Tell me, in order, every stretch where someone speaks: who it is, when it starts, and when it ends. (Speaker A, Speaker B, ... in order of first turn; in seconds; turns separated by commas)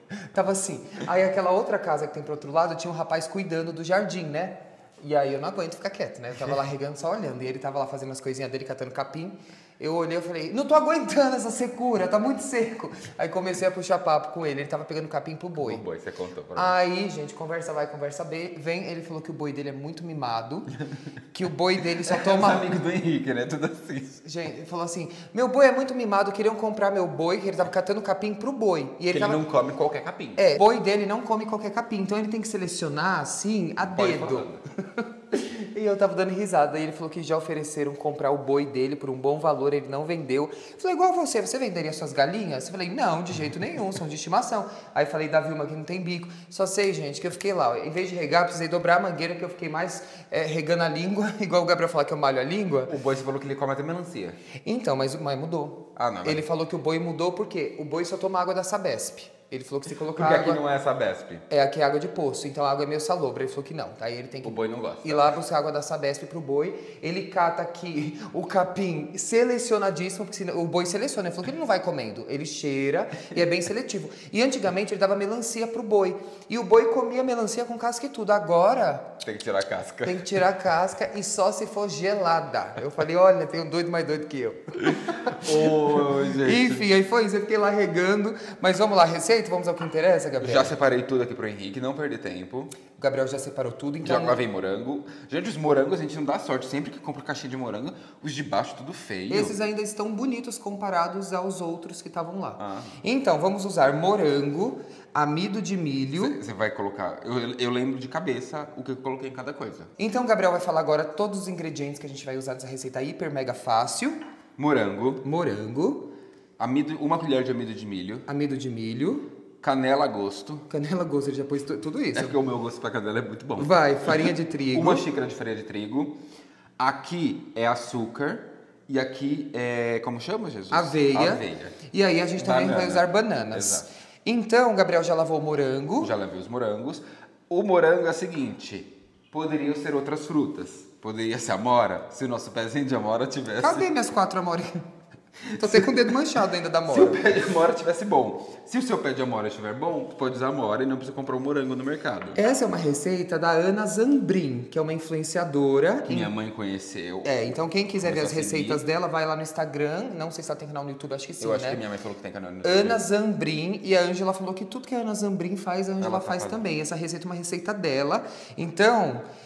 Speaker A: 0.1-15.8, Speaker B: 15.6-16.8, Speaker A: 16.6-20.7, Speaker A: 21.3-22.7, Speaker B: 22.0-24.2, Speaker A: 24.2-29.4, Speaker B: 29.1-30.4, Speaker A: 30.4-34.5, Speaker B: 33.8-34.6, Speaker A: 35.0-52.9, Speaker B: 52.9-54.4, Speaker A: 54.6-60.6, Speaker B: 56.0-56.4, Speaker B: 60.1-61.4, Speaker A: 61.5-79.1, Speaker B: 64.4-65.4, Speaker B: 79.2-80.4, Speaker A: 80.0-85.8, Speaker B: 85.3-86.9, Speaker A: 86.3-90.7, Speaker B: 90.4-92.7, Speaker A: 93.0-94.4, Speaker B: 94.0-99.5, Speaker A: 99.3-106.4, Speaker B: 102.6-103.0, Speaker B: 106.2-109.9, Speaker A: 110.0-114.2, Speaker B: 114.6-115.2, Speaker A: 115.2-116.1, Speaker B: 116.6-118.3, Speaker A: 118.3-119.3, Speaker B: 119.6-120.7, Speaker A: 120.7-122.4, Speaker B: 122.1-126.2, Speaker A: 123.6-125.0, Speaker B: 126.8-131.8, Speaker A: 130.7-136.1, Speaker B: 132.4-133.9, Speaker B: 136.0-143.8, Speaker A: 143.6-144.7, Speaker A: 145.5-147.2, Speaker B: 145.6-145.9, Speaker B: 146.9-152.4, Speaker A: 152.3-156.3, Speaker B: 156.1-158.8, Speaker A: 157.2-161.8, Speaker B: 161.4-163.0, Speaker A: 162.6-169.2, Speaker B: 166.0-166.6